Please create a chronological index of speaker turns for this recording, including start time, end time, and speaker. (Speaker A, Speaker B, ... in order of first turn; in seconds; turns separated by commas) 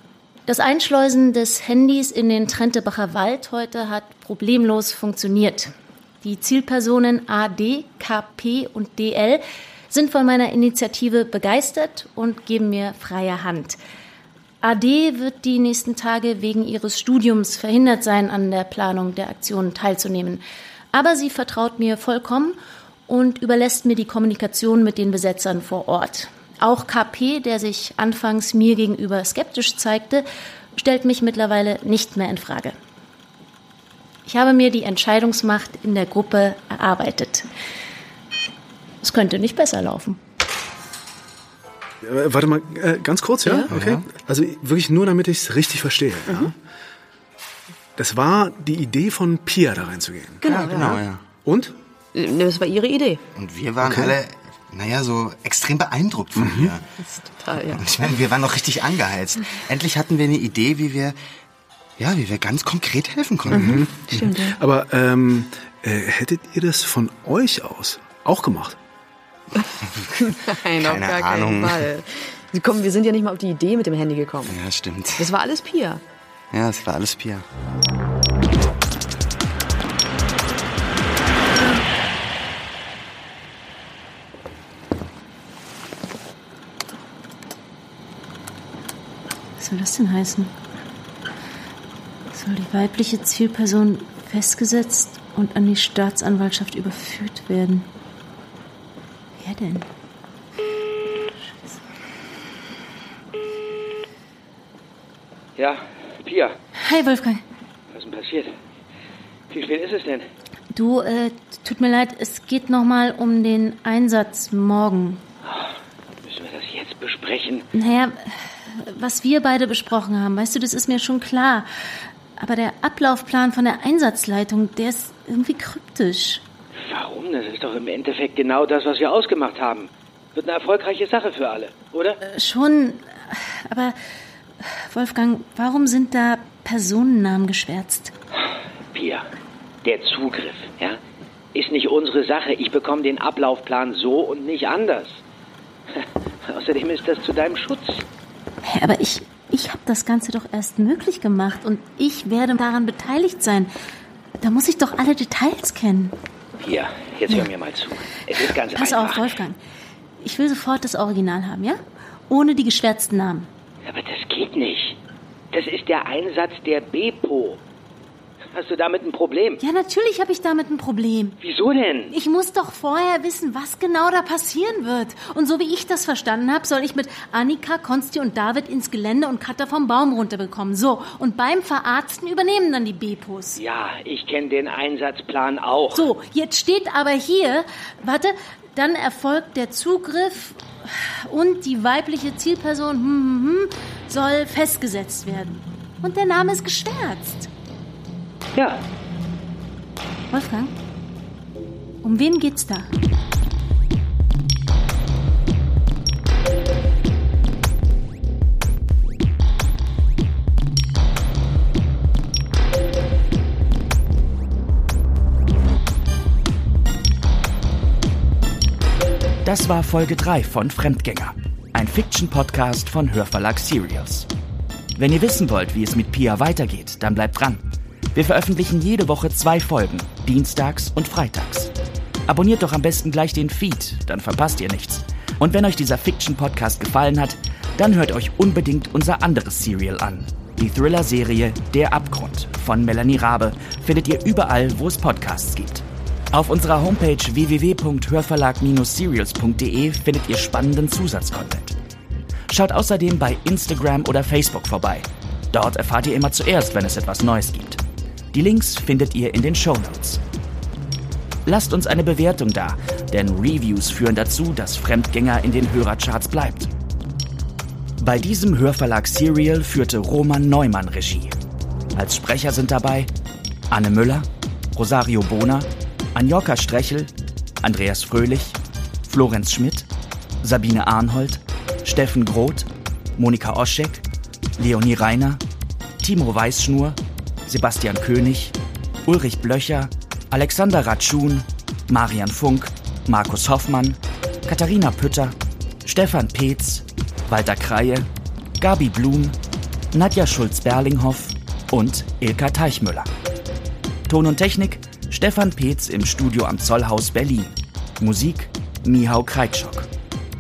Speaker A: 0.5-13.8, Speaker A: 14.6-20.4, Speaker A: 20.9-32.8, Speaker A: 34.3-37.5, Speaker A: 39.0-40.2, Speaker B: 42.0-46.5, Speaker C: 43.5-43.7, Speaker D: 43.7-44.1, Speaker C: 46.3-46.5, Speaker B: 48.0-50.5, Speaker C: 50.4-51.0, Speaker D: 50.5-51.2, Speaker B: 51.5-51.7, Speaker C: 52.1-53.2, Speaker D: 53.4-56.9, Speaker B: 53.8-54.1, Speaker B: 56.4-56.7, Speaker C: 57.0-57.8, Speaker D: 57.7-61.1, Speaker D: 62.0-63.8, Speaker C: 63.5-64.6, Speaker B: 63.5-68.8, Speaker C: 69.5-74.6, Speaker D: 70.8-71.8, Speaker D: 74.5-75.3, Speaker C: 75.1-76.0, Speaker D: 76.5-77.5, Speaker A: 89.6-90.5, Speaker A: 92.3-97.9, Speaker A: 99.4-99.9, Speaker E: 105.6-106.6, Speaker A: 106.8-107.4, Speaker E: 107.9-108.5, Speaker E: 109.5-110.3, Speaker A: 110.7-115.2, Speaker E: 116.2-117.7, Speaker A: 117.7-121.7, Speaker A: 122.4-126.4, Speaker E: 126.8-132.2, Speaker A: 132.2-134.0, Speaker A: 134.6-138.1, Speaker E: 138.9-139.2, Speaker E: 139.8-141.0, Speaker E: 141.6-145.2, Speaker E: 146.5-148.0, Speaker A: 148.6-153.7, Speaker A: 154.4-156.2, Speaker E: 156.6-159.3, Speaker A: 158.7-159.6, Speaker A: 160.2-163.5, Speaker E: 163.9-165.0, Speaker E: 165.5-167.6, Speaker E: 168.5-169.6, Speaker A: 169.6-171.4, Speaker E: 171.4-172.1, Speaker A: 172.1-183.6, Speaker E: 183.6-186.1, Speaker A: 185.9-197.5, Speaker E: 198.6-198.8, Speaker A: 200.3-200.8, Speaker A: 202.0-202.9, Speaker F: 219.4-224.3, Speaker F: 225.0-231.7, Speaker F: 232.3-251.8, Speaker F: 252.5-257.8, Speaker F: 258.3-260.2, Speaker F: 261.5-266.7, Speaker F: 268.0-271.4, Speaker F: 271.9-273.1, Speaker F: 273.7-279.9, Speaker F: 280.4-284.0, Speaker F: 284.6-285.4, Speaker F: 286.0-298.1, Speaker F: 298.6-299.4, Speaker F: 299.9-303.1, Speaker F: 304.1-309.9